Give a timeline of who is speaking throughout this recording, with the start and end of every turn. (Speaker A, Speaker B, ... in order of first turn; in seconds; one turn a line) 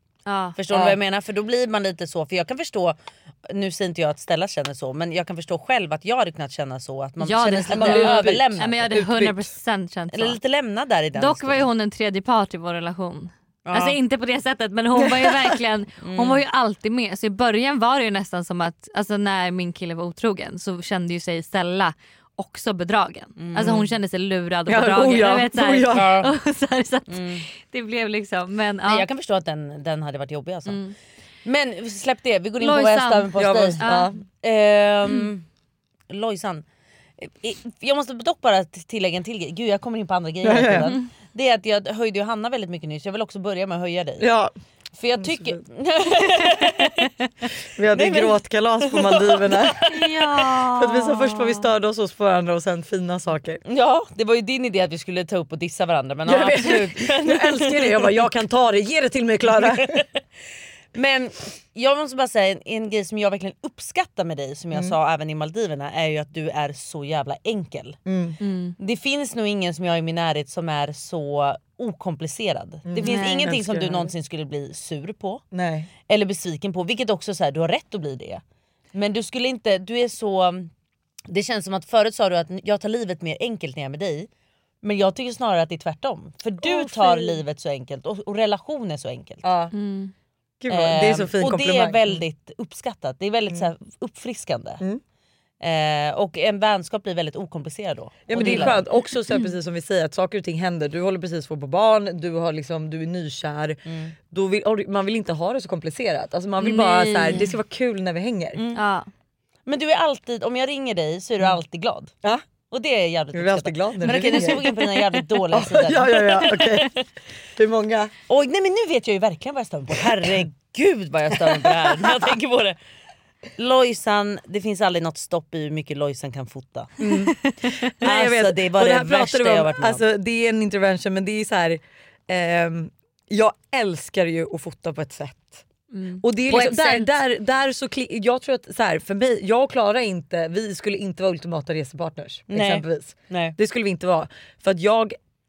Speaker A: 0.2-0.6
Speaker B: 0.6-8.9
Speaker C: 0.7-1.0
Speaker A: 7.2-10.4
Speaker C: 7.7-9.5
Speaker B: 10.1-11.7
Speaker A: 11.1-29.1
Speaker B: 13.7-14.0
Speaker C: 15.0-15.5
Speaker B: 16.0-16.4
Speaker B: 23.4-23.9
Speaker C: 24.7-26.2
Speaker B: 25.9-26.3
Speaker B: 27.1-27.4
Speaker B: 28.9-30.8
Speaker B: 31.4-33.8
Speaker A: 32.6-34.1
Speaker C: 33.3-34.2
Speaker B: 34.4-35.4
Speaker B: 36.1-36.6
Speaker B: 37.2-44.3
Speaker C: 40.4-40.9
Speaker C: 44.2-44.5
Speaker B: 45.0-47.0
Speaker C: 45.2-45.5
Speaker C: 47.8-49.9
Speaker B: 47.9-50.0
Speaker A: 49.9-51.6
Speaker C: 50.7-53.6
Speaker B: 53.6-58.2
Speaker C: 56.2-60.0
Speaker B: 59.5-60.0
Speaker B: 60.9-68.0
Speaker C: 68.0-68.4
Speaker A: 68.4-68.7
Speaker B: 68.8-75.4
Speaker C: 72.8-74.1
Speaker A: 73.0-73.5
Speaker C: 75.5-75.9
Speaker B: 76.1-78.4
Speaker B: 78.9-80.7
Speaker B: 81.3-84.3
Speaker B: 84.8-89.4
Speaker C: 86.6-87.4
Speaker C: 89.4-89.7
Speaker A: 89.7-90.1
Speaker C: 90.6-92.2
Speaker B: 90.7-94.8
Speaker B: 95.6-98.8
Speaker C: 98.3-108.6
Speaker A: 98.4-98.7
Speaker B: 103.9-104.1
Speaker A: 106.6-107.5
Speaker B: 108.5-108.8
Speaker A: 108.7-109.1
Speaker B: 109.7-112.1
Speaker B: 112.7-117.0
Speaker C: 113.3-116.9
Speaker C: 117.6-118.1
Speaker B: 118.3-122.8
Speaker C: 121.5-121.9
Speaker B: 123.6-127.0
Speaker C: 127.0-127.3
Speaker C: 127.9-135.6
Speaker B: 128.0-130.0
Speaker A: 135.9-136.2
Speaker C: 136.2-145.2
Speaker B: 136.5-137.0
Speaker B: 142.5-143.6